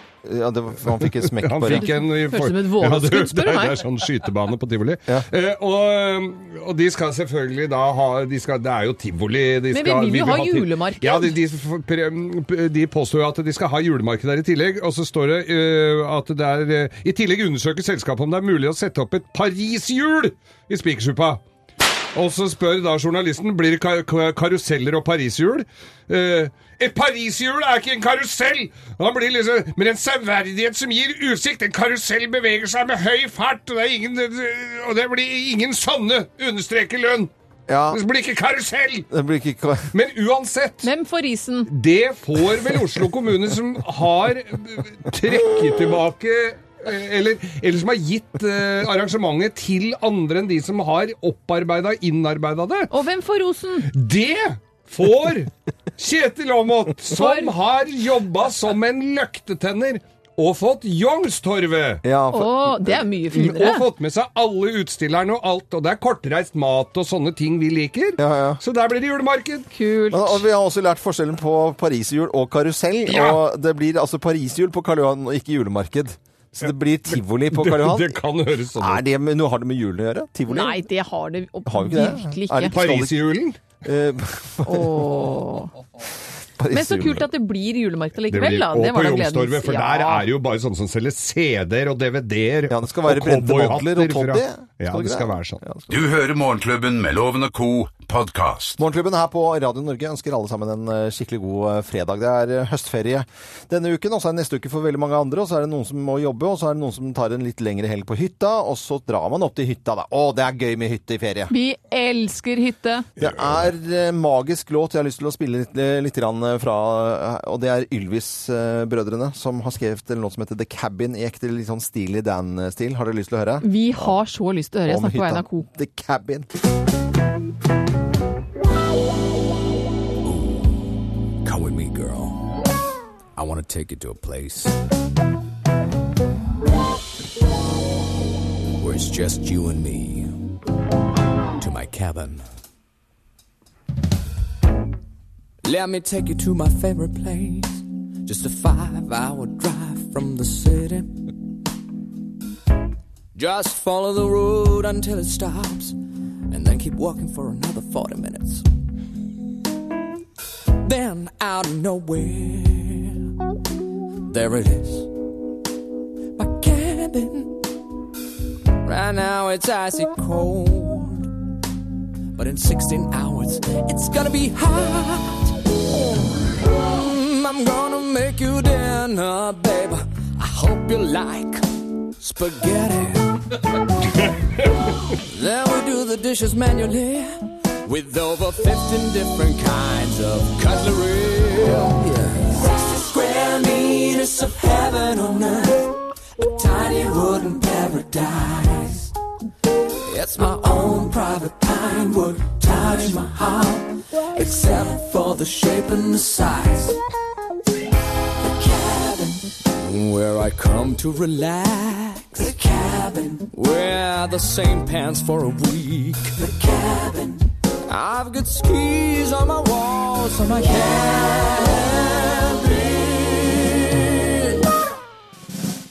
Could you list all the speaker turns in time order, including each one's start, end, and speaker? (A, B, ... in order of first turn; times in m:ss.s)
0:00.2-0:01.9 A
0:01.0-0:21.4 B
0:01.6-0:03.8 C
0:09.7-0:11.3 C
0:22.1-0:37.3 B
0:37.7-0:38.0 A
0:37.9-0:39.1 B
0:39.1-0:39.9 A
0:39.9-0:40.9 B
0:40.8-0:41.7 C
0:41.7-0:52.9 B
0:52.9-0:53.9 C
0:53.8-1:02.0 B
0:57.1-0:57.5 C
1:02.0-1:03.1 A
1:02.3-1:03.8 C
1:03.3-1:09.7 B
1:08.2-1:08.6 A
1:09.7-1:10.4 C
1:10.1-1:18.2 A
1:13.1-1:13.4 B
1:16.6-1:19.0 B
1:18.8-1:20.8 A
1:20.5-1:22.7 C
1:21.6-1:23.2 A
1:22.7-1:23.6 B
1:23.8-1:25.3 A
1:24.6-1:25.7 C
1:26.6-1:27.3 A
1:26.7-1:30.2 C
1:28.3-1:35.6 B
1:32.7-1:36.0 A
1:35.9-1:38.8 D
1:38.8-1:51.5 A
1:51.5-1:53.1 C
1:53.2-2:04.2 A
1:53.2-1:53.6 B
2:03.6-2:05.7 C
2:04.8-2:06.5 A
2:10.2-2:12.6 E
2:13.4-2:14.8 E
2:18.8-2:20.4 E
2:21.6-2:22.4 E
2:25.6-2:31.2 E
2:33.3-2:36.0 E
2:36.5-2:38.6 E
2:40.8-2:43.2 E
2:44.3-2:45.1 E
2:46.4-2:47.7 E
2:48.8-2:51.3 E
2:52.3-2:55.5 E
2:56.7-3:03.5 E
3:05.2-3:19.1 E
3:20.0-3:27.0 E
3:28.5-3:44.6 E